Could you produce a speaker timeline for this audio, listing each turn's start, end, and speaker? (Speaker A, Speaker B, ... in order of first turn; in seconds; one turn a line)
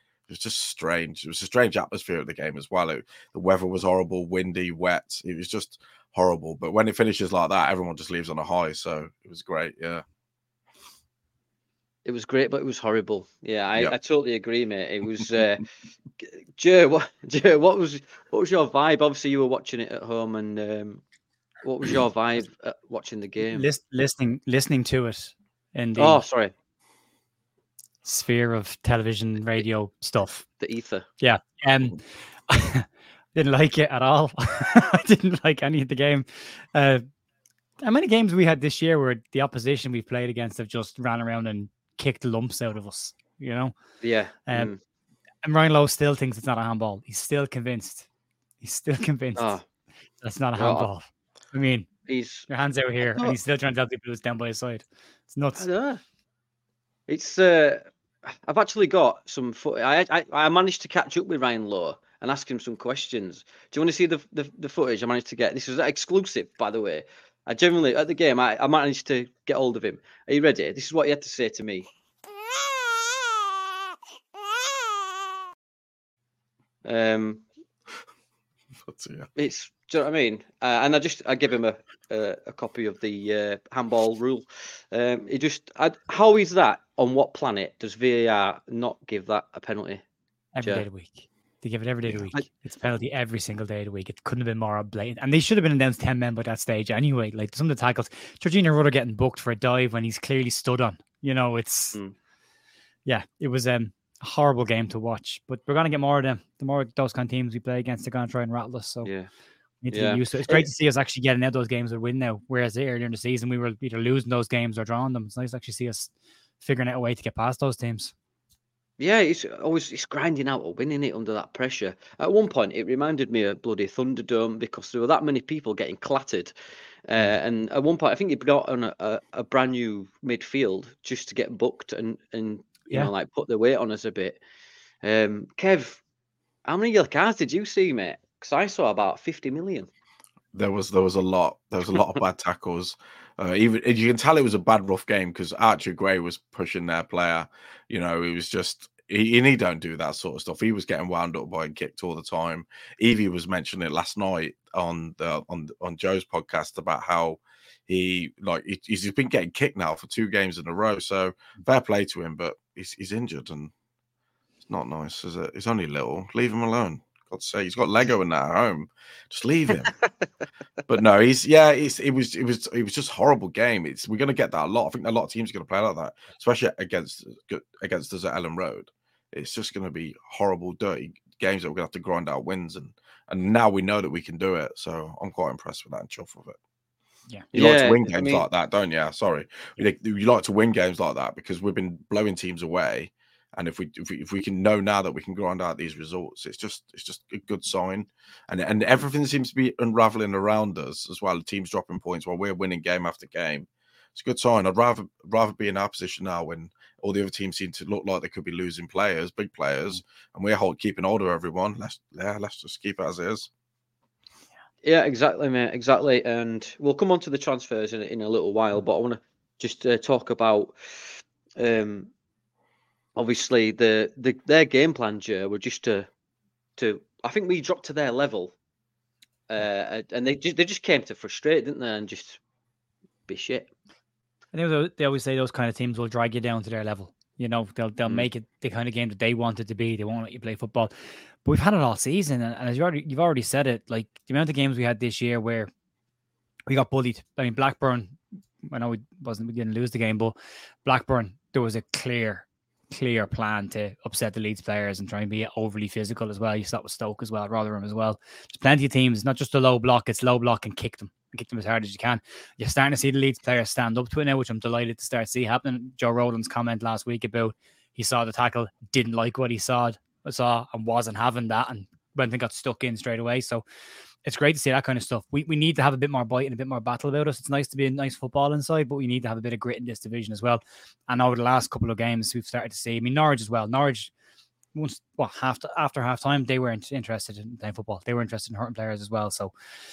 Speaker A: 0.3-10.0
Speaker B: 12.1-15.7
Speaker B: 16.2-21.0
Speaker B: 21.6-23.7
Speaker C: 23.5-26.2
Speaker B: 26.0-26.5
Speaker C: 28.1-30.4
Speaker B: 30.6-31.1
Speaker C: 31.2-37.0
Speaker C: 37.8-43.8
Speaker B: 44.0-44.8
Speaker C: 45.4-48.1
Speaker C: 48.6-49.6
Speaker B: 49.4-49.6
Speaker C: 50.2-51.9
Speaker B: 50.6-50.9
Speaker B: 52.1-52.5
Speaker C: 52.5-55.7
Speaker B: 53.0-53.4
Speaker B: 55.6-56.0
Speaker B: 57.1-71.9
Speaker B: 76.8-77.4
Speaker A: 78.8-79.3
Speaker B: 79.4-90.0
Speaker C: 90.5-102.0
Speaker C: 103.1-109.1
Speaker B: 109.0-109.3
Speaker C: 109.8-116.1
Speaker B: 109.9-110.7
Speaker C: 116.6-118.1
Speaker B: 119.0-126.5
Speaker B: 127.1-134.4
Speaker B: 135.0-136.0
Speaker B: 136.7-139.9
Speaker A: 140.5-163.7
Speaker A: 164.7-169.9
Speaker A: 170.9-186.6
Speaker B: 187.5-188.4
Speaker A: 187.5-213.5
Speaker B: 214.8-222.1
Speaker B: 223.2-226.1
Speaker B: 226.8-228.5
Speaker B: 229.5-232.4
Speaker B: 233.3-233.7
Speaker C: 234.5-240.9
Speaker C: 241.4-245.7
Speaker C: 246.7-273.6
Speaker C: 274.2-284.1
Speaker C: 284.7-289.5